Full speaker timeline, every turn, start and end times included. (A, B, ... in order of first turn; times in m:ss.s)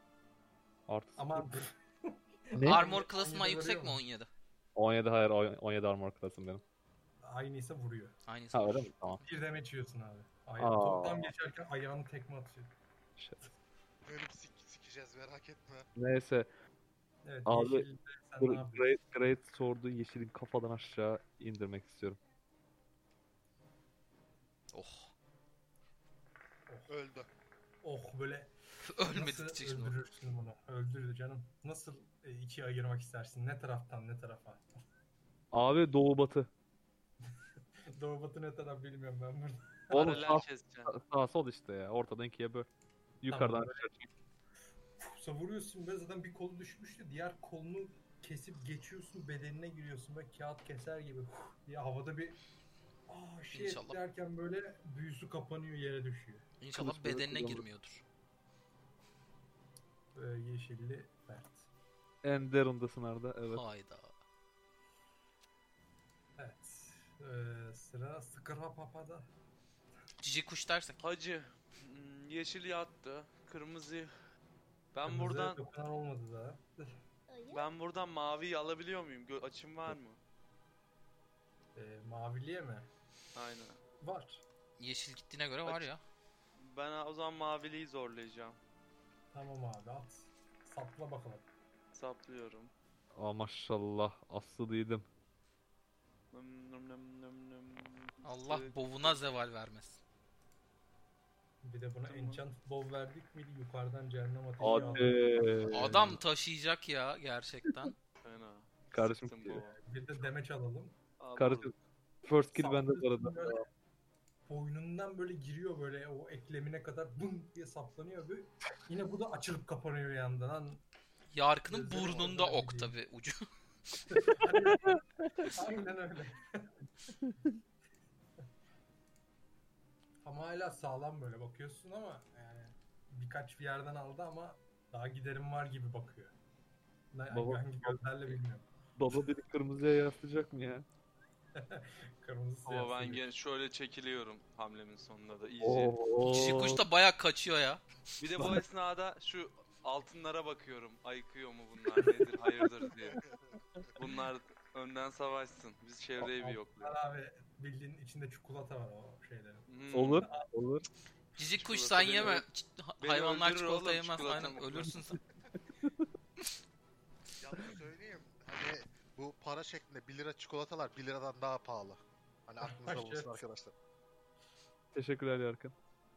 0:00.9-0:01.5 A
0:01.2-0:04.0 B
0:02.5-0:02.8 A
0:02.6-0:04.3 C
0:04.7-0:06.6 A
0:07.2-0:08.2 B
0:08.2-0:09.2 C
0:08.5-0:09.2 A
0:09.2-0:12.7 B
0:10.6-0:11.3 A
0:14.0-0:15.8 D
0:16.0-0:16.5 A
0:17.2-0:18.9 B
0:17.4-0:17.8 A
0:18.4-0:22.2 A
0:24.7-0:25.1 C
0:26.9-0:27.3 D
0:27.8-0:28.5 B
0:28.8-0:29.9 C
0:29.1-0:34.6 B
0:35.5-0:36.5 A
0:37.9-0:40.2 B
0:39.9-0:42.7 A
0:39.9-0:40.9 E
0:43.2-0:44.1 A
0:43.3-0:43.8 B
0:45.0-0:52.4 B
0:53.1-0:56.4 B
0:53.5-0:54.0 C
0:56.6-0:58.0 C
0:56.7-0:57.6 A
1:00.1-1:01.7 B
1:02.2-1:03.6 A
1:03.5-1:04.1 C
1:06.4-1:09.3 B
1:10.2-1:11.0 C
1:11.0-1:14.1 E
1:14.9-1:15.6 E
1:15.0-1:17.0 B
1:17.5-1:20.2 E
1:21.7-1:22.9 B
1:23.3-1:23.8 E
1:24.0-1:24.4 B
1:24.8-1:26.0 C
1:26.6-1:28.6 E
1:29.3-1:31.4 B
1:31.9-1:32.7 E
1:33.1-1:35.0 A
1:36.3-1:39.2 E
1:38.2-1:40.0 C
1:41.6-1:46.2 B
1:42.0-1:42.4 E
1:44.6-1:46.2 A
1:45.7-1:47.9 C
1:48.2-1:49.8 E
1:48.9-1:49.6 A
1:49.4-1:50.9 B
1:51.2-1:51.8 E
1:51.4-1:53.6 A
1:52.5-1:53.6 B
1:54.5-2:00.8 B
2:01.3-2:03.4 C
2:01.7-2:02.9 B
2:04.1-2:06.7 B
2:10.2-2:16.3 B
2:17.1-2:19.2 B
2:17.3-2:18.4 A
2:19.0-2:20.8 A
2:21.6-2:23.2 B
2:22.7-2:26.0 E
2:25.6-2:26.8 A
2:26.2-2:27.8 C
2:28.2-2:33.2 E
2:28.4-2:28.6 A
2:33.2-2:33.5 D
2:34.0-2:37.0 E
2:36.2-2:40.5 B
2:39.7-2:40.3 E
2:39.9-2:40.9 A
2:41.4-2:45.2 C
2:41.5-2:42.4 E
2:43.0-2:45.0 E
2:45.7-2:46.0 A
2:47.4-2:53.7 D
2:52.6-2:53.4 B
2:54.9-2:55.7 A